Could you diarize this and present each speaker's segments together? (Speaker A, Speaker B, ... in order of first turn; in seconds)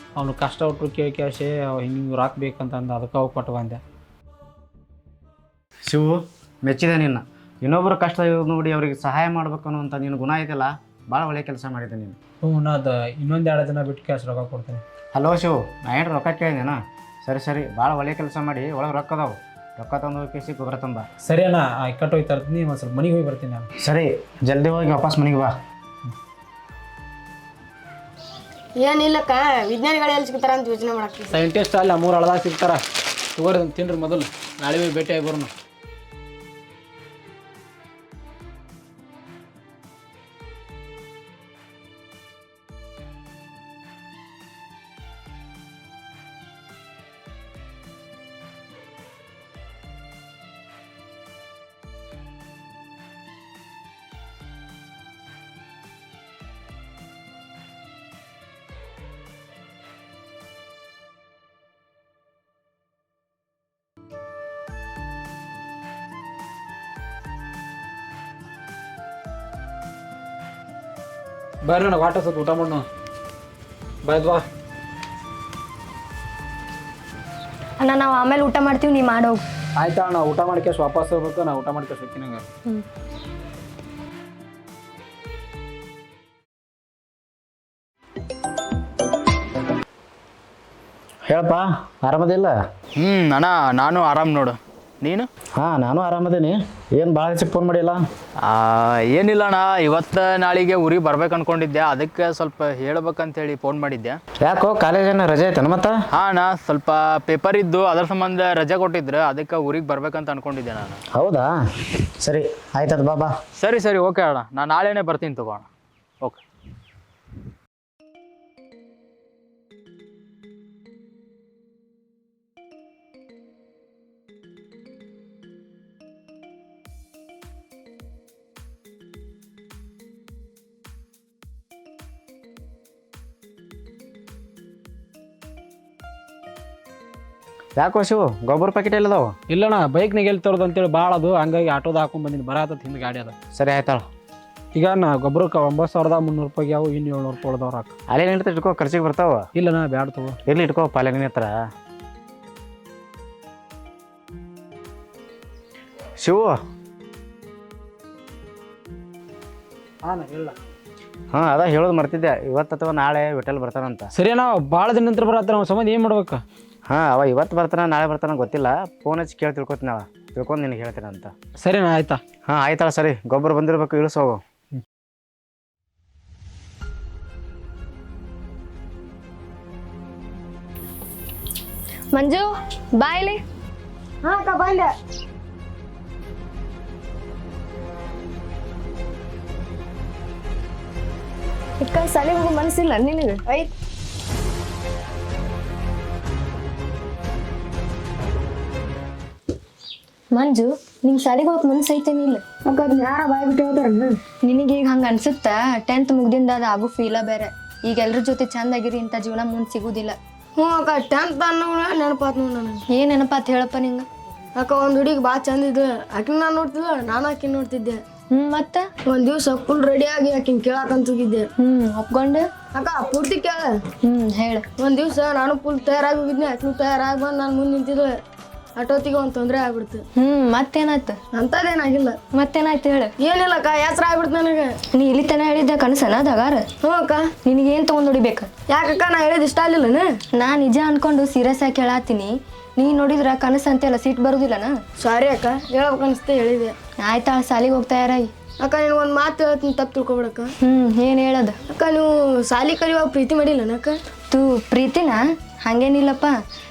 Speaker A: 0.2-3.8, 12.4-14.8, 21.2-23.7, 31.3-32.8, 33.4-35.5, 71.7-72.8, 74.0-74.4, 79.8-82.4, 139.5-143.3, 144.7-147.9, 149.6-150.4, 160.1-160.6, 164.2-166.4, 171.6-172.2
Speaker B: 5.9-12.2, 15.2-21.1, 23.8-25.5, 91.3-92.5, 95.6-98.0, 104.4-106.0, 111.2-111.5, 112.2-113.3, 137.8-139.3, 143.6-144.0, 148.1-149.4, 150.5-151.5, 156.2-156.6, 161.3-164.1, 166.9-171.3, 172.5-174.4
Speaker C: 28.8-31.4, 184.2-184.9, 202.7-204.2, 210.6-212.8, 214.6-218.0, 219.1-221.5, 222.7-223.8, 224.8-228.2, 228.8-230.0, 231.3-232.2, 233.2-234.8, 236.8-237.3, 238.7-240.1, 245.0-246.8, 248.6-250.5, 251.7-253.9
Speaker D: 77.8-79.4, 182.1-183.4, 191.8-193.4, 200.3-202.4, 204.4-210.2, 212.9-214.1, 218.3-218.9, 221.6-222.4, 224.1-224.7, 230.2-231.2, 232.3-233.1, 235.0-236.7, 237.4-238.5, 240.4-244.7, 247.0-248.3, 250.7-251.6, 254.3-256.3
Speaker E: 93.0-95.3, 98.4-104.2, 106.1-111.0, 113.6-115.7